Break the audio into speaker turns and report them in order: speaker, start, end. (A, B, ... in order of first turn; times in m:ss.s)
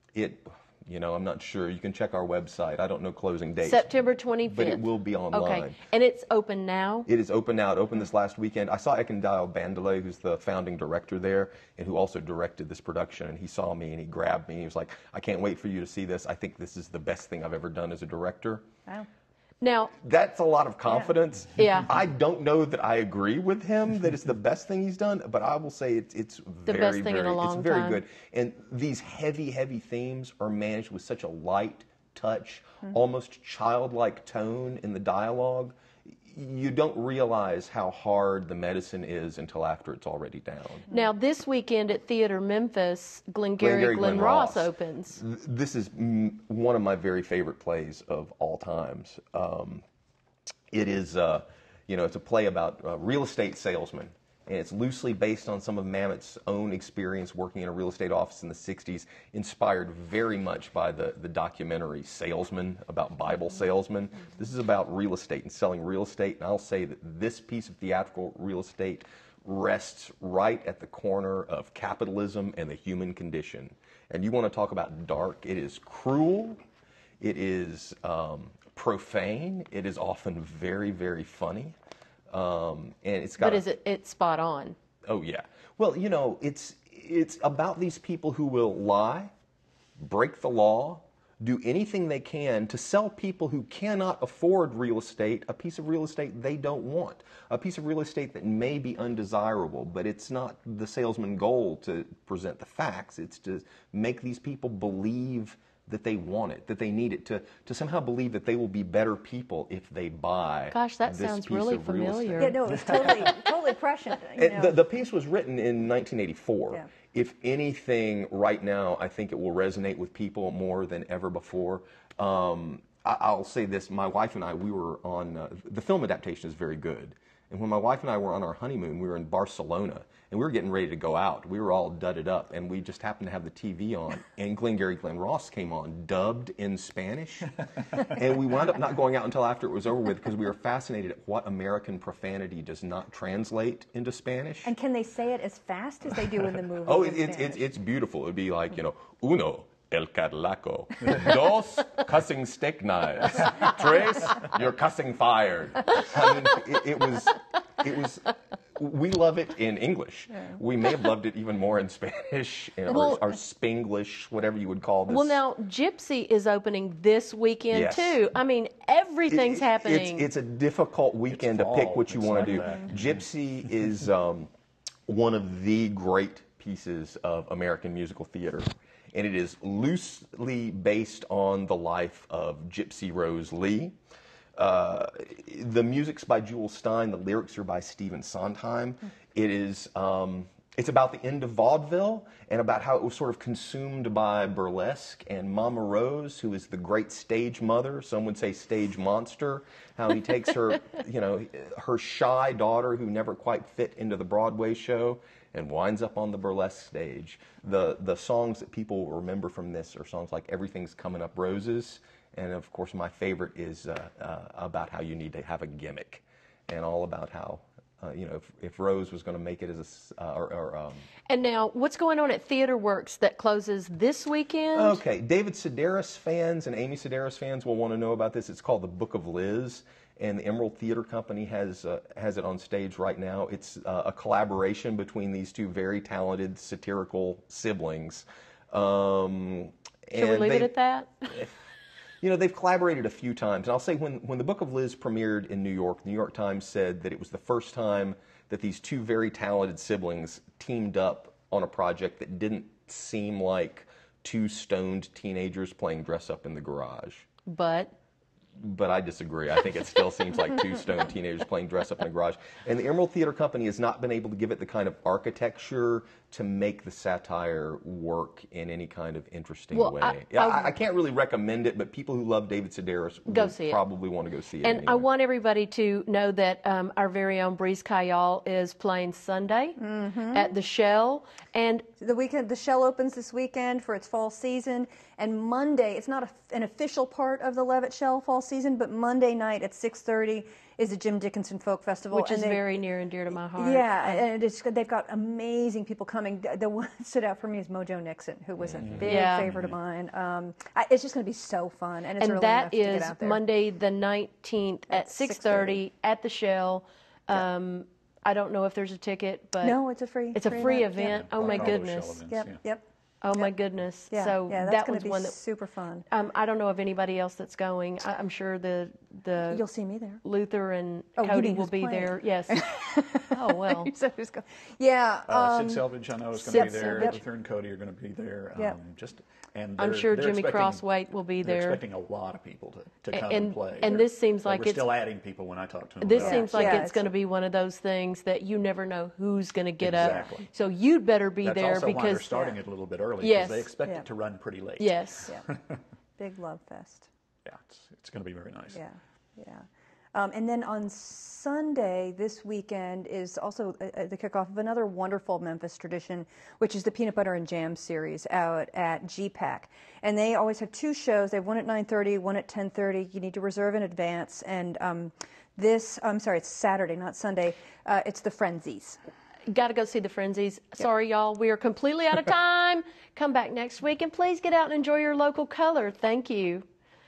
0:00.2-0:05.8 A
0:03.6-0:07.1 B
0:07.1-0:18.6 A
0:19.6-0:19.9 B
0:20.0-0:35.7 A
0:21.6-0:21.9 B
0:26.7-0:28.0 B
0:36.2-0:40.9 A
0:40.9-0:45.2 B
0:43.6-0:49.8 A
0:50.7-1:16.6 A
1:17.2-1:21.8 A
1:22.3-1:23.6 A
1:23.4-1:24.8 B
1:25.0-1:29.3 A
1:30.0-1:53.3 A
1:50.7-1:52.6 B
1:52.4-1:54.8 C
1:54.4-2:24.7 A
2:24.6-2:27.6 C
2:26.8-2:45.4 A
2:42.9-2:43.2 B
2:45.1-2:50.3 B
2:47.7-2:48.2 A
2:49.3-2:54.5 A
2:51.3-2:53.2 D
2:55.1-3:04.0 A
3:04.6-3:41.1 A
3:41.3-3:45.0 B
3:44.8-4:00.7 A
4:00.1-4:01.3 B
4:02.2-4:17.3 A
4:17.5-4:18.0 B
4:18.6-4:35.0 A
4:29.7-4:30.7 B
4:33.3-4:33.8 B
4:34.6-4:39.8 B
4:39.8-4:40.5 C
4:40.3-4:41.9 B
4:42.0-4:52.6 C
4:52.1-4:54.2 B
4:53.6-5:03.4 C
4:58.6-4:59.0 A
4:58.8-4:59.4 D
4:59.0-4:59.5 B
5:02.2-5:09.8 B
5:04.9-5:05.8 C
5:09.6-5:11.8 C
5:10.3-5:12.2 B
5:10.5-5:12.6 D
5:12.3-5:12.8 C
5:13.2-5:15.4 B
5:14.1-5:16.1 C
5:16.1-5:19.6 B
5:19.5-5:20.2 C
5:20.2-5:23.9 B
5:21.2-5:25.9 C
5:25.3-5:30.8 D
5:26.4-5:27.2 C
5:26.4-5:27.2 B
5:29.8-5:31.8 B
5:31.4-5:37.0 D
5:33.1-5:34.9 B
5:36.0-5:42.5 B
5:36.2-5:37.0 C
5:39.8-5:40.5 D
5:41.4-5:45.8 D
5:43.2-5:43.7 B
5:44.8-5:45.3 B
5:46.2-5:47.1 C
5:47.4-5:48.8 D
5:48.7-6:09.0 C
6:09.5-6:16.6 B